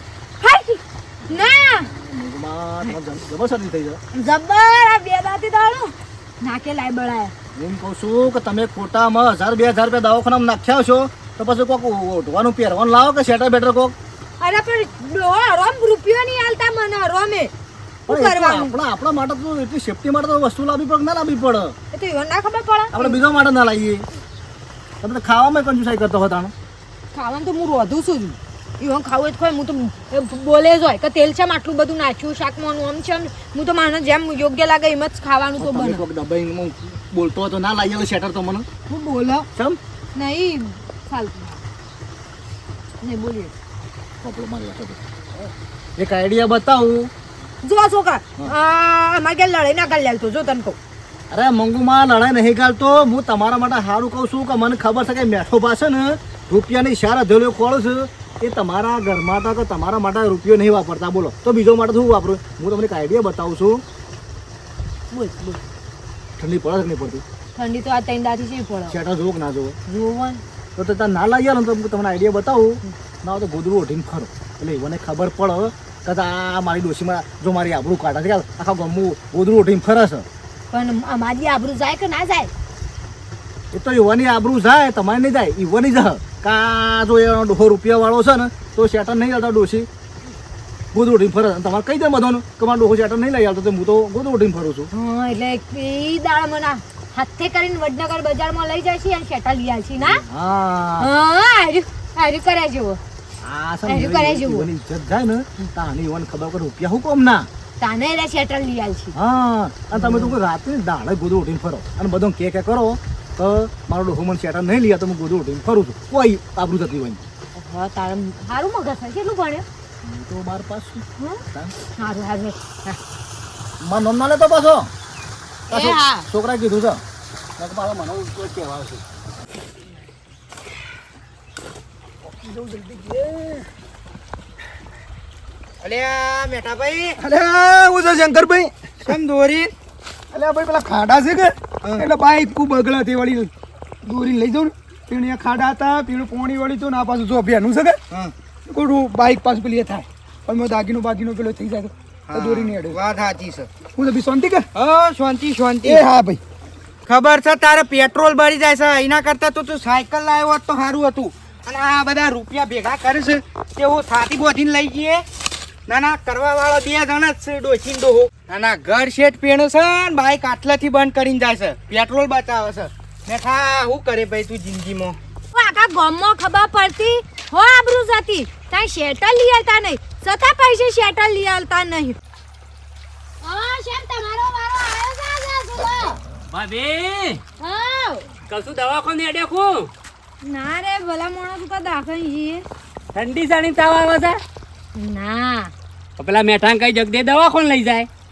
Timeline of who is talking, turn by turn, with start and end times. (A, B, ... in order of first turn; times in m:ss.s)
0:00.4-0:01.9 A
0:01.9-0:04.0 B
0:04.1-0:07.3 A
0:07.5-0:13.9 B
0:14.4-0:17.5 A
0:18.1-0:18.7 A
0:18.1-0:21.7 B
0:21.9-0:23.2 A
0:22.9-0:24.0 B
0:25.0-0:26.5 B
0:27.1-0:36.0 A
0:35.6-0:38.6 B
0:38.9-0:39.5 A
0:40.1-0:41.6 A
0:43.0-0:43.5 A
0:44.2-0:47.1 B
0:47.6-0:50.8 A
0:51.3-1:03.8 B
1:05.1-1:05.6 A
1:06.4-1:07.2 B
1:07.6-1:09.0 A
1:08.9-1:09.8 B
1:09.9-1:10.4 A
1:10.8-1:20.2 B
1:20.7-1:22.5 A
1:23.7-1:29.9 B
1:30.9-1:34.9 B
1:34.9-1:40.2 A
1:40.3-1:41.1 B
1:41.0-1:43.0 A
1:43.4-1:47.5 B
1:43.8-1:44.7 A
1:47.8-1:49.1 A
1:49.1-1:57.2 B
1:49.9-1:50.3 A
1:57.5-1:59.6 A
2:00.0-2:01.7 B
2:01.2-2:01.4 A
2:02.0-2:03.0 A
2:03.8-2:04.9 B
2:05.7-2:06.3 A
2:05.7-2:07.0 B
2:07.6-2:09.0 B
2:12.2-2:13.6 C
2:15.8-2:17.1 D
2:17.2-2:19.2 C
2:19.0-2:19.7 D
2:20.3-2:23.5 C
2:24.0-2:28.0 C
2:28.7-2:33.0 C
2:32.3-2:33.7 D
2:34.0-2:34.6 C
2:34.8-2:36.0 D
2:35.8-2:36.4 C
2:37.1-2:45.2 D
2:45.9-2:55.2 D
2:55.5-3:02.2 A
3:03.4-3:06.2 A
3:06.5-3:07.4 E
3:07.6-3:08.2 A
3:08.5-3:09.9 E
3:10.4-3:12.6 A
3:13.1-3:14.4 E
3:14.9-3:15.7 A
3:16.2-3:18.1 E